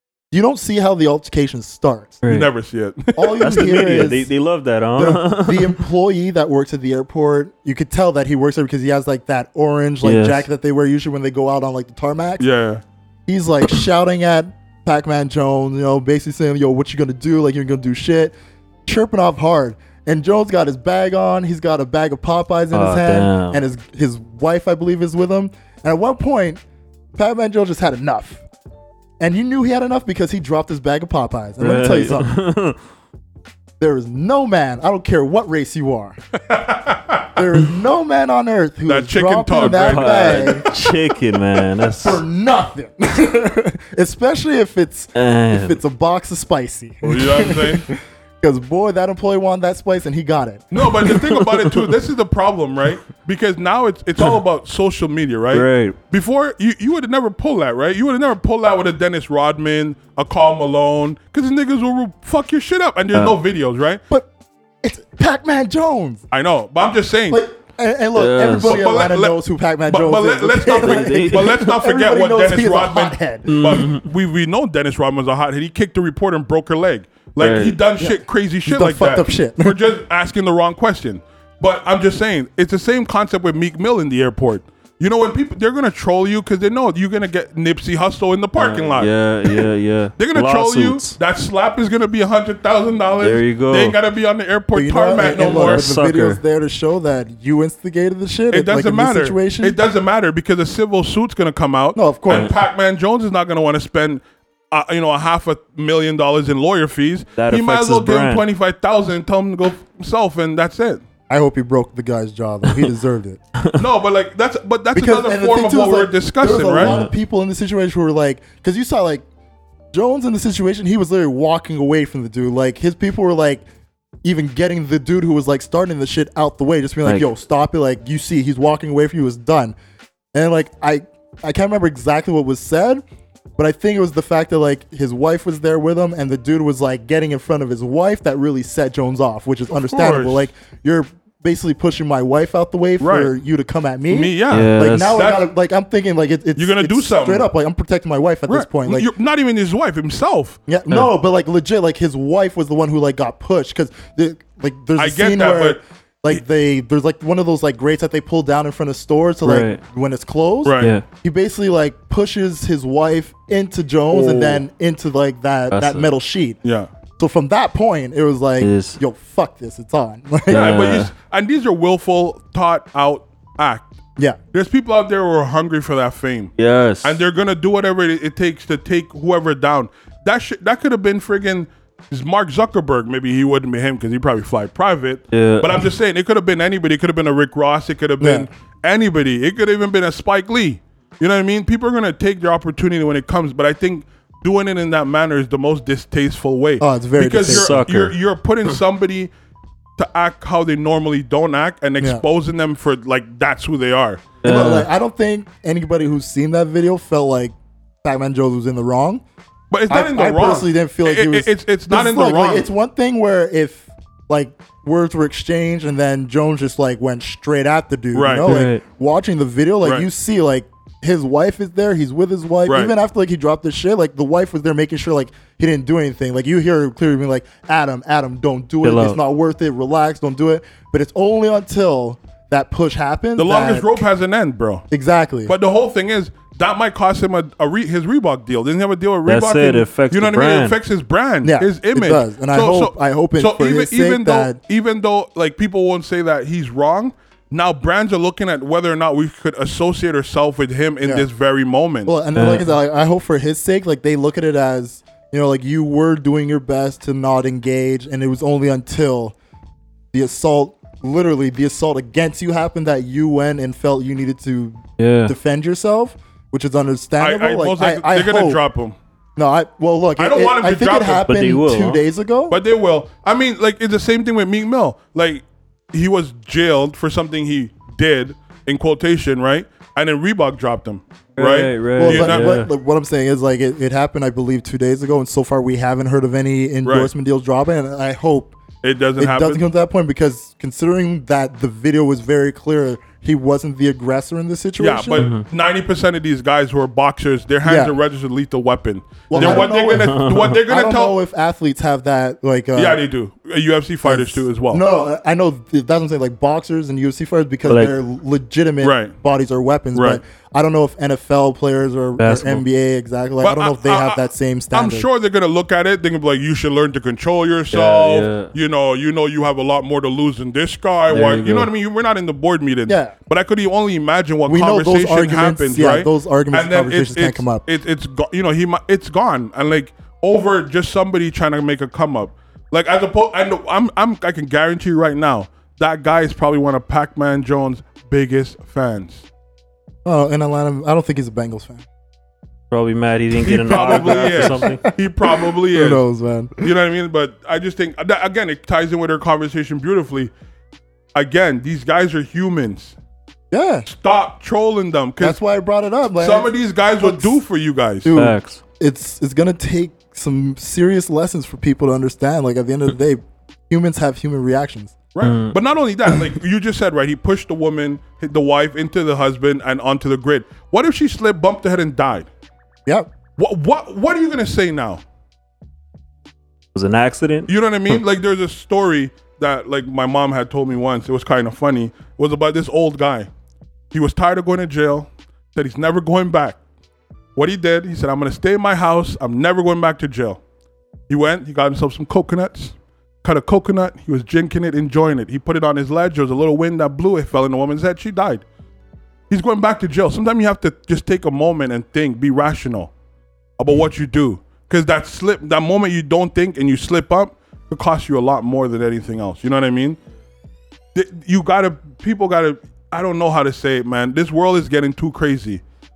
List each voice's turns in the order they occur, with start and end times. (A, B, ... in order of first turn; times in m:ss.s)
0:00.3-0:02.2 A
0:02.2-0:02.5 B
0:02.3-0:03.7 C
0:03.2-0:04.3 A
0:03.4-0:05.8 B
0:05.0-0:12.5 A
0:10.0-0:10.4 B
0:12.4-0:12.8 C
0:13.3-0:18.4 A
0:18.9-0:26.6 A
0:22.7-0:23.6 B
0:27.2-0:28.4 A
0:29.2-0:32.3 A
0:31.6-0:32.8 B
0:33.8-0:36.2 A
0:36.5-0:37.3 C
0:37.4-0:40.7 A
0:38.9-0:40.7 C
0:39.5-0:42.2 B
0:42.0-0:51.2 A
0:45.2-0:45.8 B
0:47.0-0:47.8 C
0:50.7-1:04.0 C
0:51.0-0:51.8 B
0:55.5-0:56.0 B
1:04.8-1:06.2 A
1:06.3-1:07.4 C
1:07.3-1:13.8 A
1:08.2-1:08.9 B
1:08.6-1:29.7 C
1:10.7-1:11.8 B
1:13.5-1:14.0 B
1:17.4-1:17.8 B
1:18.0-1:19.8 A
1:28.6-1:31.2 B
1:30.2-1:35.9 C
1:33.2-1:34.0 B
1:34.7-1:39.8 A
1:35.2-1:36.4 B
1:38.5-1:51.0 C
1:42.0-1:42.5 A
1:47.4-1:48.4 B
1:51.3-1:53.4 A
1:53.8-1:57.0 C
1:55.0-1:59.2 A
1:56.8-1:57.1 B
1:59.9-2:03.6 A
2:04.2-2:09.8 A
2:10.3-2:13.0 A
2:13.6-2:29.1 A
2:19.9-2:20.5 C
2:23.0-2:23.3 C
2:24.1-2:25.5 C
2:24.5-2:25.2 B
2:26.6-2:27.5 C
2:28.5-2:30.6 C
2:30.7-2:46.6 A
2:35.0-2:35.8 C
2:39.4-2:39.8 B
2:40.6-2:41.0 C
2:40.8-2:41.0 B
2:44.1-2:44.6 B
2:45.7-2:46.1 B
2:46.6-2:46.9 C
2:47.2-2:50.9 A
2:48.6-2:49.0 B
2:50.5-2:51.1 B
2:50.5-2:53.8 C
2:54.5-3:19.3 C
2:56.6-2:57.2 B
3:05.3-3:05.8 B
3:08.2-3:08.5 A
3:16.8-3:17.8 A
3:17.4-3:18.1 B
3:20.0-3:24.4 C
3:24.4-3:24.9 B
3:24.4-3:29.2 A
3:29.7-3:32.7 C
3:29.9-3:54.0 A
3:38.1-3:38.6 C
3:38.4-3:38.8 B
3:42.7-3:42.9 C
3:48.8-3:49.2 B
3:53.4-3:54.9 C
3:54.9-3:55.6 A
3:55.5-4:12.1 C
3:59.3-4:00.8 B
4:01.4-4:04.6 A
4:12.1-4:19.4 A
4:12.4-4:12.7 B
4:20.1-4:28.6 A
4:25.0-4:25.3 B
4:27.2-4:29.0 C
4:29.4-4:32.6 A
4:30.2-4:31.3 C
4:31.3-4:32.0 B
4:32.5-4:42.5 C
4:41.4-4:42.7 B
4:42.0-4:48.6 A
4:46.8-4:47.1 C
4:48.8-4:49.6 C
4:49.2-4:55.3 A
4:54.8-5:01.2 C
4:55.2-4:55.4 B
4:57.6-4:57.9 A
4:59.3-5:03.0 A
4:59.4-5:00.6 B
5:02.8-5:04.8 C
5:04.0-5:15.1 A
5:07.7-5:07.9 B
5:08.8-5:09.1 C
5:10.0-5:10.2 C
5:12.2-5:12.6 B
5:13.4-5:39.3 C
5:17.7-5:18.5 B
5:21.1-5:21.7 B
5:22.9-5:23.1 A
5:24.5-5:27.6 A
5:40.0-5:41.8 A
5:42.7-5:44.8 B
5:43.3-5:46.0 C
5:43.7-5:46.7 A
5:46.6-5:50.3 C
5:51.1-5:53.0 C
5:53.5-5:53.9 A
5:53.9-5:55.4 C
5:55.2-5:57.4 A
5:56.2-5:58.1 C
5:58.0-6:05.0 A
5:58.2-5:58.6 B
6:05.2-6:12.3 C
6:05.2-6:05.6 B
6:13.4-6:15.0 C
6:16.7-6:17.5 B
6:17.5-6:23.3 C
6:23.9-6:26.6 C
6:27.4-6:30.4 C
6:31.1-6:38.4 C
6:39.3-6:42.9 C
6:43.6-6:50.0 C
6:50.9-6:55.6 C